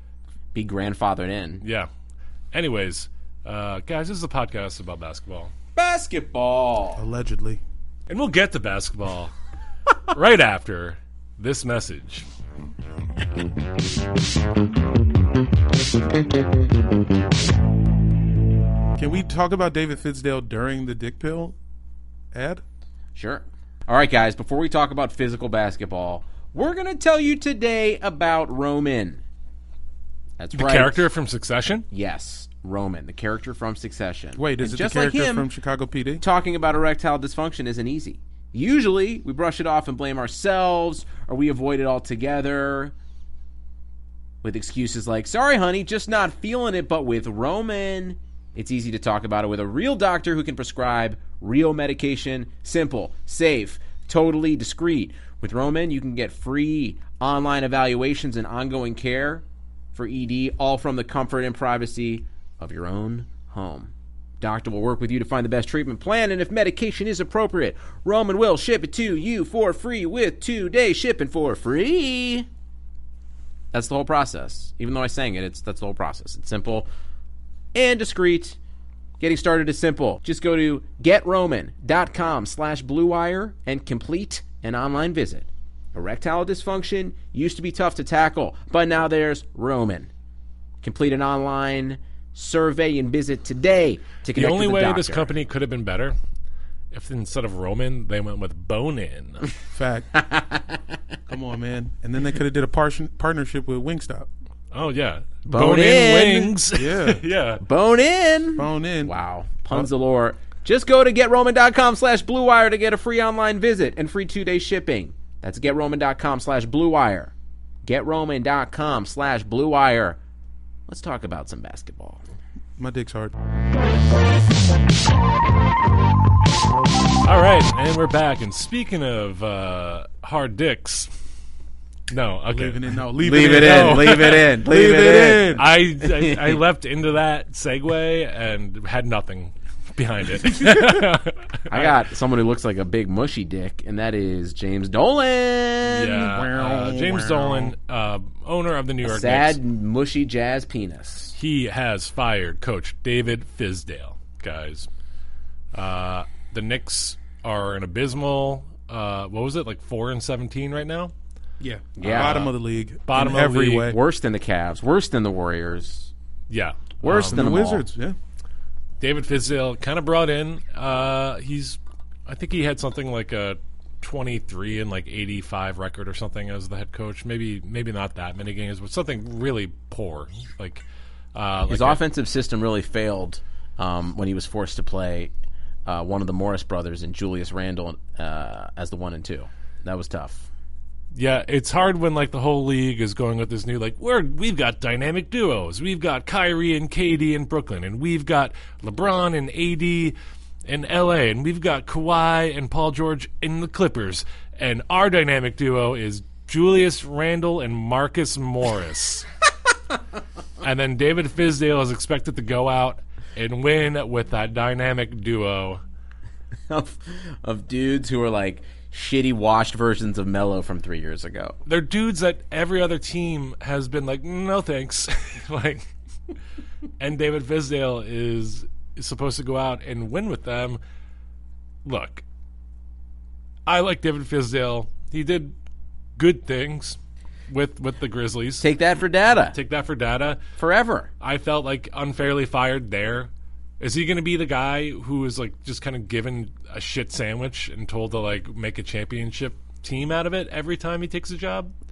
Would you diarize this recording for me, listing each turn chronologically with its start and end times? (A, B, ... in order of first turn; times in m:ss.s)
0:00.5-0:01.6 A
0:01.6-0:01.9 B
0:02.5-0:05.5 B
0:05.7-0:07.0 A
0:07.0-0:07.6 C
0:08.1-0:09.3 B
0:10.1-0:12.2 B
0:19.0-0:21.6 C
0:22.3-0:22.6 C
0:23.1-0:29.2 A
0:30.4-0:31.0 A
0:30.5-0:31.8 B
0:31.9-0:35.5 A
0:34.4-0:36.2 C
0:36.2-0:42.9 A
0:44.4-1:12.5 A
1:13.7-1:16.9 A
1:17.7-1:18.6 A
1:19.2-1:30.1 A
1:30.8-1:35.3 A
1:34.3-1:36.2 B
1:36.9-1:39.5 B
1:39.7-1:40.1 C
1:40.1-1:40.8 A
1:41.3-1:44.3 C
1:44.7-1:47.6 B
1:45.4-1:46.5 A
1:46.7-1:47.2 C
1:47.6-1:57.3 A
1:48.6-1:49.1 C
1:57.8-2:00.2 A
2:00.9-2:02.2 A
2:02.8-2:03.3 C
2:07.2-2:11.1 B
2:12.1-2:14.5 B
2:12.5-2:15.6 C
2:13.2-2:16.6 A
2:15.5-2:22.0 B
2:20.6-2:21.0 C
2:21.7-2:26.3 A
2:25.8-2:29.6 B
2:26.3-2:27.7 C
2:29.0-2:31.3 A
2:31.3-2:34.9 B
2:35.7-2:41.1 B
2:41.6-2:44.0 C
2:42.0-2:42.4 A
2:42.0-2:42.5 B
2:43.0-2:43.9 B
2:43.8-2:46.1 A
2:46.5-2:47.6 B
2:47.0-2:47.8 A
2:47.0-2:48.2 C
2:49.0-3:02.0 B
3:01.7-3:05.3 A
3:05.8-3:10.5 A
3:11.1-3:20.1 B
3:20.6-3:29.3 B
3:30.6-3:35.8 B
3:36.7-3:41.6 A
3:41.6-3:45.9 B
3:47.0-3:50.8 B
3:51.8-3:52.2 B
3:53.6-3:55.5 B
3:56.2-3:57.0 B
3:57.5-3:58.6 B
3:58.6-3:59.6 A
3:59.5-4:00.4 B
4:00.6-4:01.1 A
4:01.2-4:03.3 B
4:03.8-4:11.7 B